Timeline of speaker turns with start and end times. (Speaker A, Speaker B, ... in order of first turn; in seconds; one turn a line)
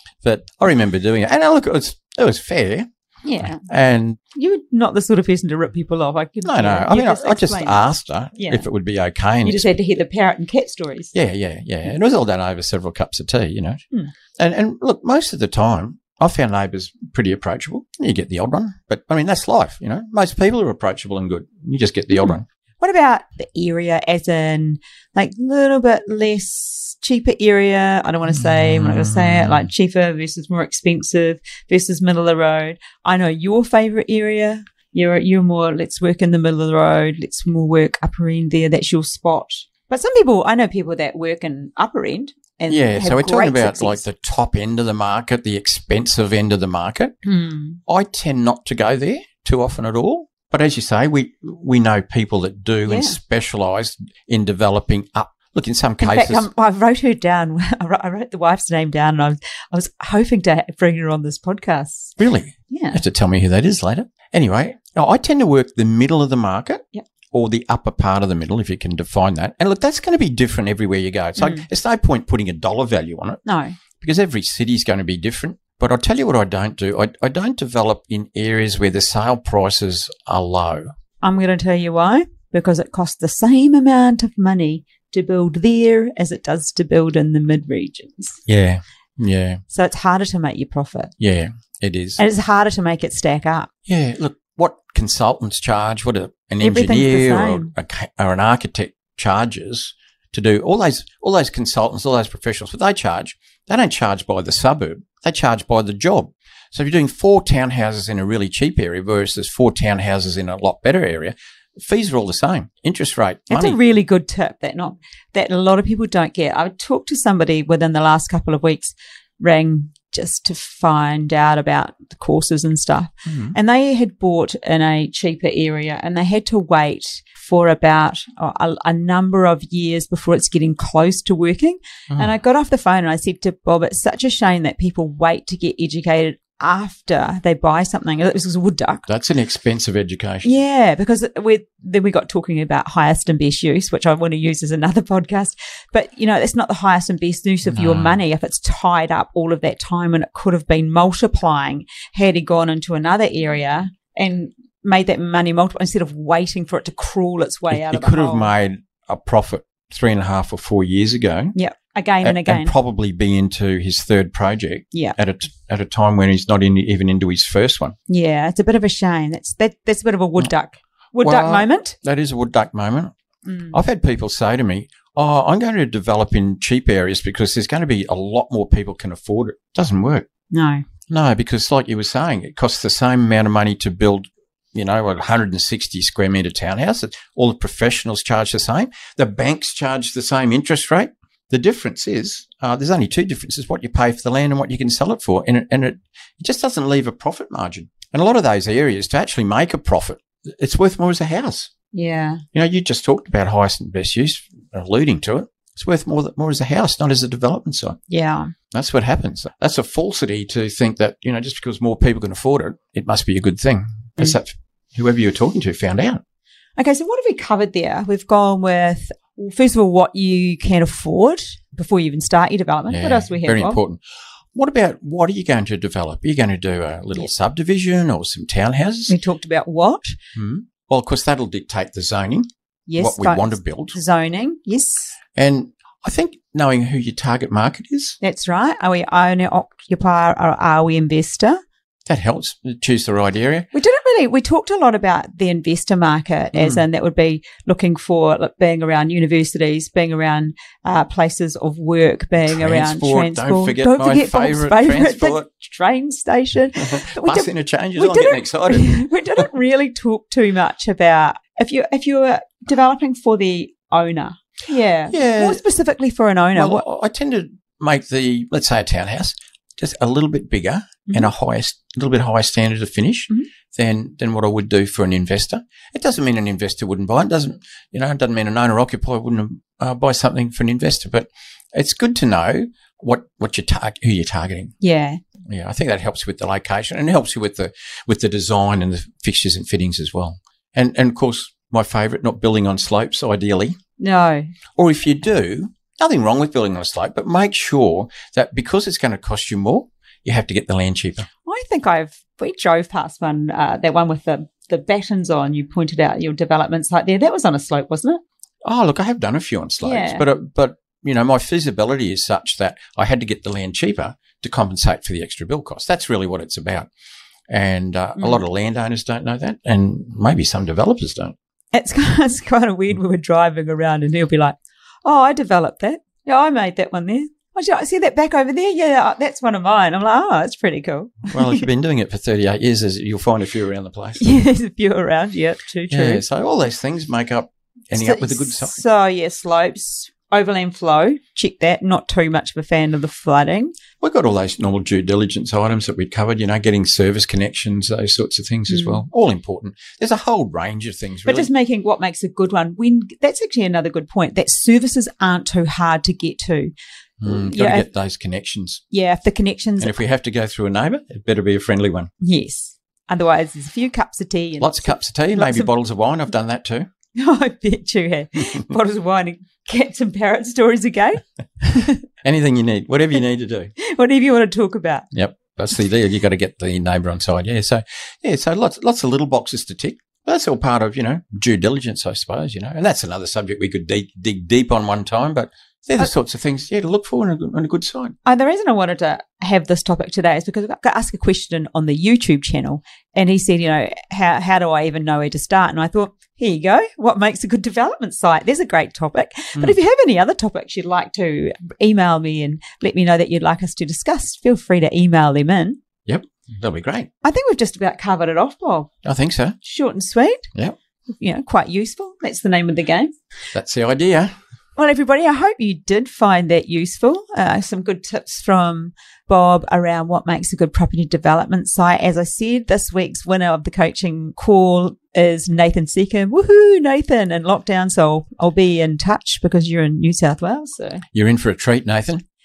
Speaker A: 0.2-2.9
Speaker B: 3.2-3.6
Speaker A: 3.4-4.2
Speaker B: 4.3-7.9
Speaker A: 6.5-9.7
Speaker B: 8.4-8.7
Speaker B: 9.4-11.1
Speaker A: 11.1-13.8
Speaker A: 14.4-22.5
Speaker B: 22.2-44.0
Speaker A: 28.3-29.7
Speaker A: 42.7-47.1
Speaker B: 47.2-47.8
Speaker A: 47.9-56.5
Speaker B: 52.9-53.2
Speaker B: 56.0-62.2
Speaker A: 62.2-73.4
Speaker B: 62.7-63.0
Speaker B: 71.4-71.7
Speaker B: 73.5-73.8
Speaker A: 74.0-80.9
Speaker B: 81.2-88.4
Speaker A: 88.5-89.6
Speaker B: 89.7-91.1
Speaker A: 91.2-92.2
Speaker B: 92.2-93.7
Speaker A: 93.9-113.8
Speaker B: 96.6-97.7
Speaker B: 113.5-139.1
Speaker A: 123.3-123.5
Speaker A: 139.1-140.5
Speaker B: 140.4-158.5
Speaker A: 147.7-148.2
Speaker A: 157.7-161.6
Speaker B: 161.6-162.7
Speaker A: 162.2-168.0
Speaker B: 168.1-172.0
Speaker A: 171.2-173.1
Speaker B: 173.5-173.8
Speaker A: 173.7-180.3
Speaker B: 180.5-180.9
Speaker A: 181.1-201.7
Speaker B: 201.9-202.4
Speaker A: 202.5-208.0
Speaker B: 208.1-208.5
Speaker A: 208.7-216.2
Speaker B: 216.8-223.8
Speaker A: 222.9-224.0
Speaker A: 224.5-229.2
Speaker B: 229.1-230.2
Speaker A: 230.3-232.5
Speaker B: 232.9-235.2
Speaker A: 233.0-234.0
Speaker A: 235.3-238.2
Speaker B: 238.2-241.6
Speaker A: 242.1-243.7
Speaker B: 243.7-266.8
Speaker A: 246.6-246.8
Speaker A: 252.5-255.5
Speaker A: 256.8-259.5
Speaker A: 265.1-265.6
Speaker A: 266.6-284.7
Speaker B: 284.8-285.2
Speaker A: 285.5-293.8
Speaker B: 294.0-294.5
Speaker A: 294.8-301.3
Speaker B: 301.5-308.2
Speaker A: 308.6-316.9
Speaker B: 309.8-310.2
Speaker A: 317.5-321.3
Speaker B: 318.2-318.4
Speaker B: 321.7-331.7
Speaker A: 331.3-334.3
Speaker B: 334.2-336.2
Speaker A: 335.9-338.8
Speaker B: 338.0-343.8
Speaker A: 344.0-351.5
Speaker B: 348.7-349.0
Speaker B: 351.3-356.7
Speaker A: 357.2-358.8
Speaker B: 357.3-357.9
Speaker B: 358.9-360.0
Speaker A: 359.8-362.1
Speaker B: 362.2-365.7
Speaker A: 364.6-366.9
Speaker B: 367.1-372.0
Speaker A: 372.2-373.7
Speaker B: 373.8-375.1
Speaker A: 375.1-388.2
Speaker B: 388.2-405.8
Speaker A: 406.1-407.1
Speaker B: 407.2-408.9
Speaker A: 409.0-409.6
Speaker B: 409.6-410.5
Speaker B: 411.2-413.1
Speaker A: 413.5-414.3
Speaker B: 414.8-431.0
Speaker A: 431.1-432.2